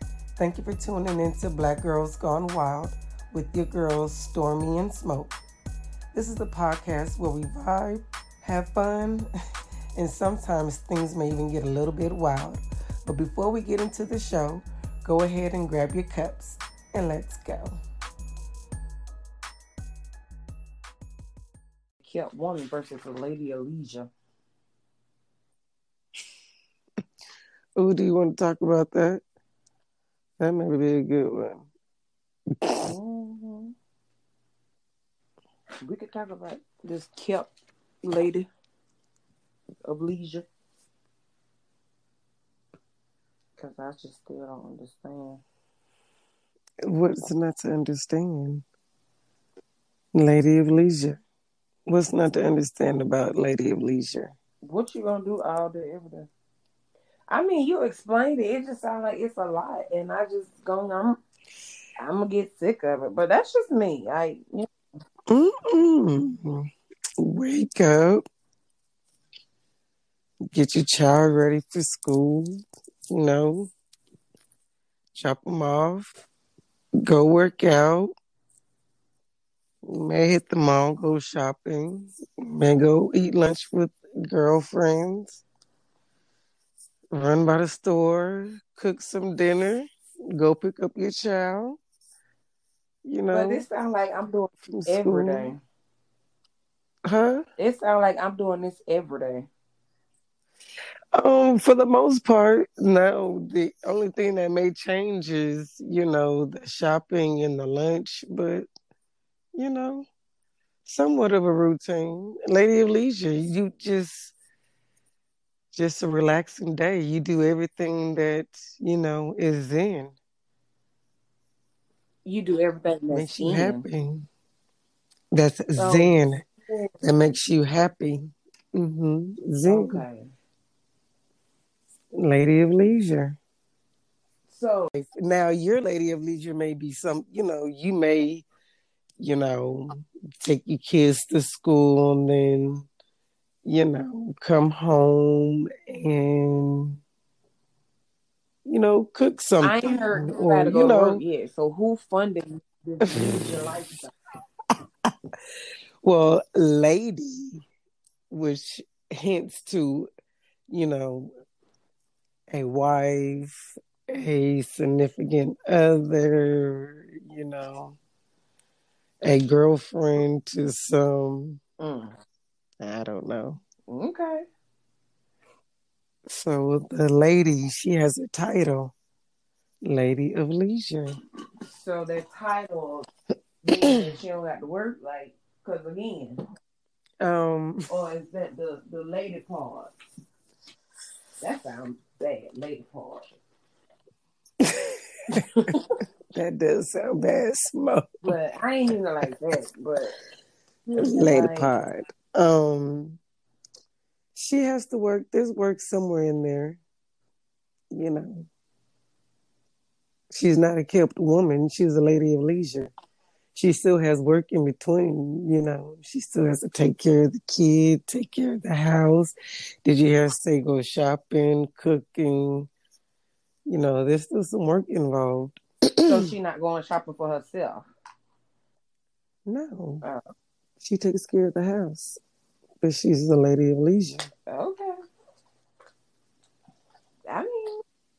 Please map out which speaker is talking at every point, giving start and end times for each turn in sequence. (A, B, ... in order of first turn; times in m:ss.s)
0:00.4-0:05.4 A
0:06.1-0:09.2 A
0:10.0-0:17.8 A
0:22.0-0:24.1 B
0:27.8-0:29.2 A
0:30.4-0:31.7 A
0:32.6-0:32.9 A
0:32.8-0:33.7 B
0:35.8-0:37.5 B
0:38.0-0:38.4 B
0:39.8-0:40.5 B
0:43.6-0:45.4 B
0:46.8-0:48.6 A
0:50.1-0:51.2 A
0:51.9-0:54.3 A
0:54.6-0:56.3 B
0:57.3-1:01.2 B
1:02.0-1:04.7 B
1:05.3-1:06.6 A
1:07.2-1:08.2 A
1:10.5-1:13.7 A
1:15.1-1:16.1 A
1:17.0-1:18.1 A
1:19.8-1:25.4 A
1:27.1-1:31.8 A
1:33.0-1:33.6 A
1:33.3-1:35.6 B
1:34.7-1:35.5 A
1:37.0-1:37.4 A
1:37.6-1:39.5 B
1:41.1-1:48.7 A
1:49.5-1:50.0 A
1:50.8-1:54.3 A
1:55.7-2:00.2 A
2:02.2-2:03.8 B
2:03.1-2:04.2 A
2:05.3-2:06.4 A
2:05.8-2:06.9 B
2:07.0-2:10.0 A
2:09.6-2:10.2 B
2:12.1-2:13.4 A
2:14.5-2:14.9 B
2:14.9-2:18.4 A
2:19.2-2:22.9 A
2:23.6-2:27.0 A
2:28.6-2:31.2 A
2:29.6-2:34.1 B
2:33.0-2:33.8 A
2:36.0-2:37.6 A
2:38.3-2:40.1 A
2:40.7-2:41.3 A
2:42.5-2:43.5 A
2:44.1-2:48.0 A
2:49.2-2:51.6 A
2:51.8-2:52.1 B
2:52.8-2:53.6 A
2:53.9-2:54.4 B
2:56.3-2:58.9 A
2:59.8-3:01.2 A
3:01.6-3:03.1 B
3:03.6-3:06.4 B
3:07.2-3:07.9 A
3:07.9-3:09.9 B
3:11.4-3:13.2 B
3:14.6-3:14.9 A
3:16.3-3:18.3 A
3:18.2-3:20.1 B
3:20.8-3:21.8 B
3:21.0-3:23.2 A
3:24.3-3:26.8 A
3:27.9-3:28.5 A
3:30.3-3:32.9 A
3:33.5-3:39.3 A
3:39.8-3:42.7 A
3:43.7-3:46.3 A
3:46.1-3:47.9 B
3:49.4-3:50.0 A
3:50.8-3:52.2 A
3:52.8-3:54.3 A
3:54.5-3:54.9 B
3:57.2-3:57.8 B